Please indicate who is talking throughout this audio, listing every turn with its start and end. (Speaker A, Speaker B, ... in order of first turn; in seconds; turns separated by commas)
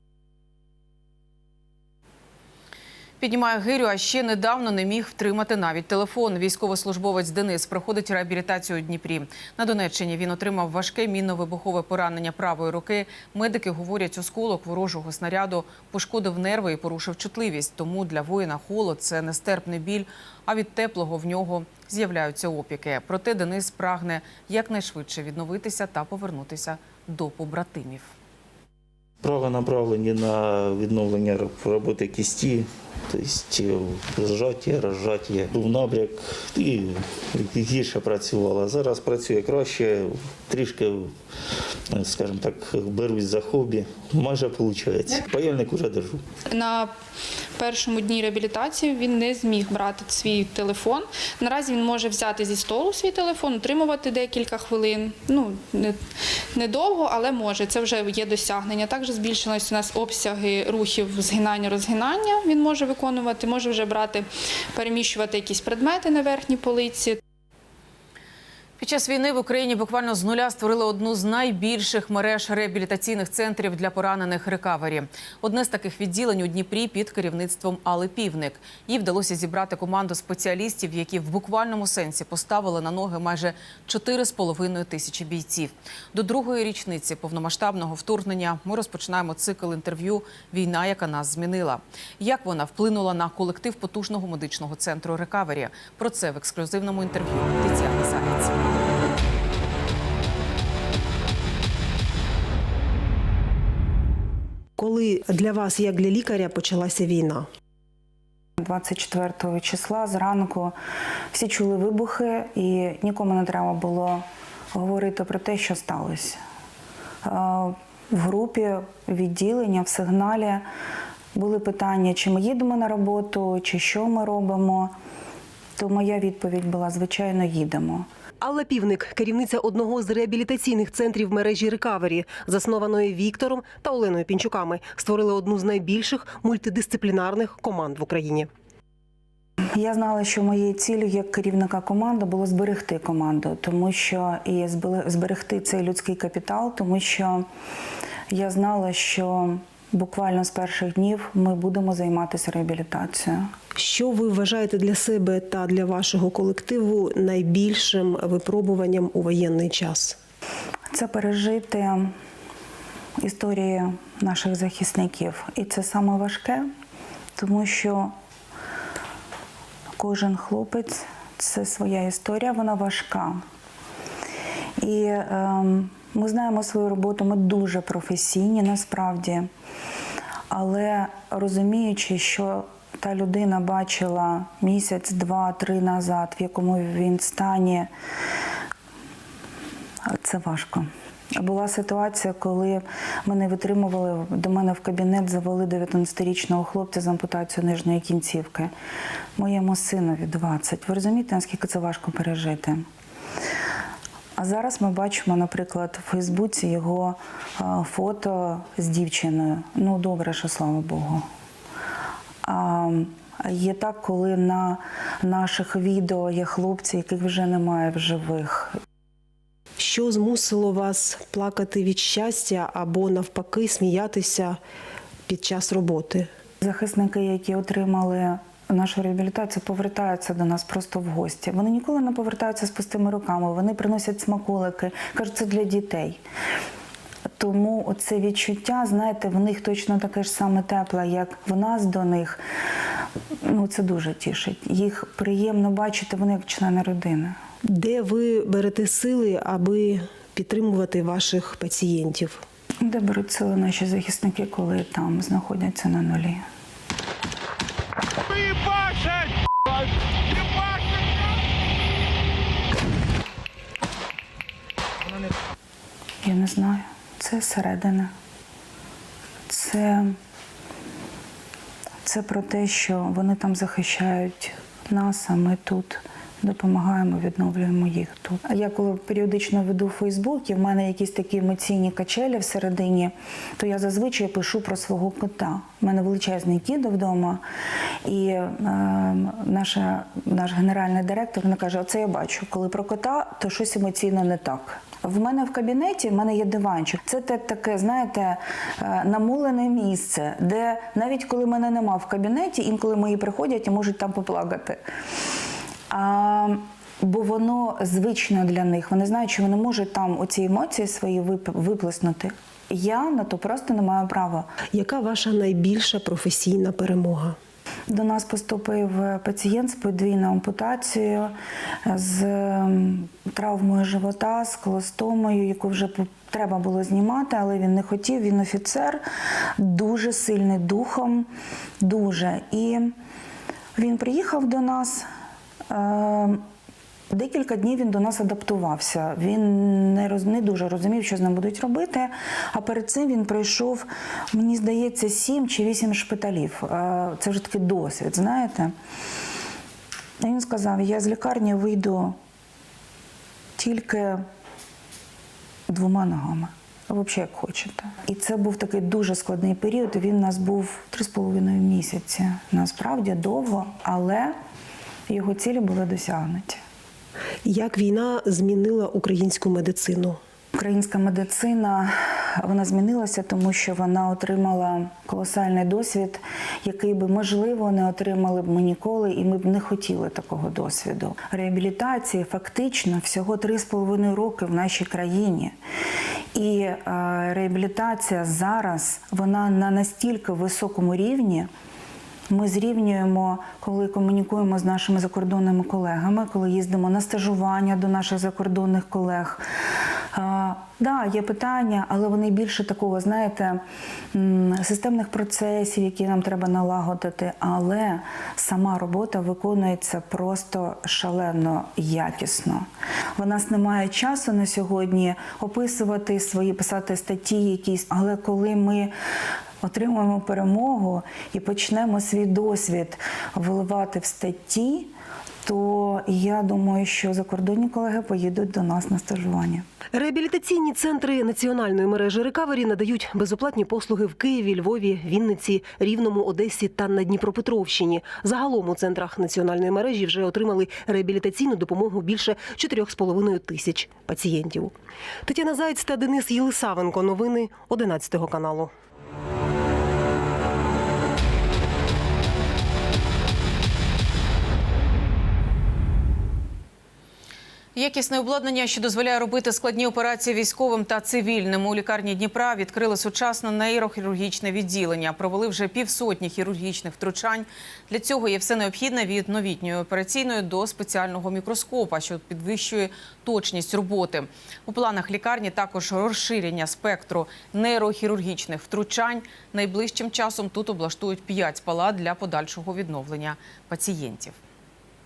Speaker A: 3.2-28.1, Speaker B: 29.2-36.7, Speaker B: 37.5-41.0, Speaker B: 42.0-46.1, Speaker C: 46.5-47.0, Speaker C: 47.5-67.2, Speaker A: 68.8-98.6, Speaker D: 104.8-107.5, Speaker E: 108.6-110.8, Speaker E: 111.3-116.4, Speaker E: 117.2-120.7, Speaker E: 121.3-125.0, Speaker E: 125.8-128.1, Speaker D: 128.4-138.5, Speaker E: 139.8-147.5, Speaker E: 148.3-153.5, Speaker D: 153.8-160.2, Speaker E: 160.9-162.1, Speaker E: 163.2-166.7, Speaker E: 167.4-168.1, Speaker E: 170.0-173.4, Speaker E: 174.8-179.5, Speaker E: 180.5-187.9, Speaker E: 190.1-198.7, Speaker E: 199.4-202.9, Speaker E: 204.4-211.3, Speaker E: 212.4-218.8, Speaker D: 219.8-224.6, Speaker D: 225.3-226.3, Speaker E: 226.6-236.2, Speaker E: 237.4-242.4, Speaker E: 243.4-247.4, Speaker D: 247.7-252.4, Speaker E: 252.8-256.4, Speaker E: 266.2-268.1, Speaker E: 269.5-270.2, Speaker E: 272.0-287.4, Speaker E: 288.1-304.8, Speaker E: 305.9-314.5, Speaker D: 314.7-317.4, Speaker E: 317.9-329.0, Speaker E: 329.6-331.3, Speaker E: 331.8-332.9, Speaker E: 333.8-335.1, Speaker E: 335.7-336.4, Speaker E: 337.1-348.7, Speaker E: 350.2-352.2, Speaker E: 353.6-354.2, Speaker E: 355.7-364.4, Speaker E: 365.1-366.6, Speaker D: 367.4-370.2, Speaker E: 370.6-385.6, Speaker E: 386.3-391.5, Speaker E: 392.3-399.4, Speaker E: 400.1-403.6, Speaker E: 404.1-418.9, Speaker E: 419.6-424.9, Speaker E: 425.4-429.7, Speaker D: 429.9-444.7, Speaker D: 445.2-448.7, Speaker A: 457.8-484.4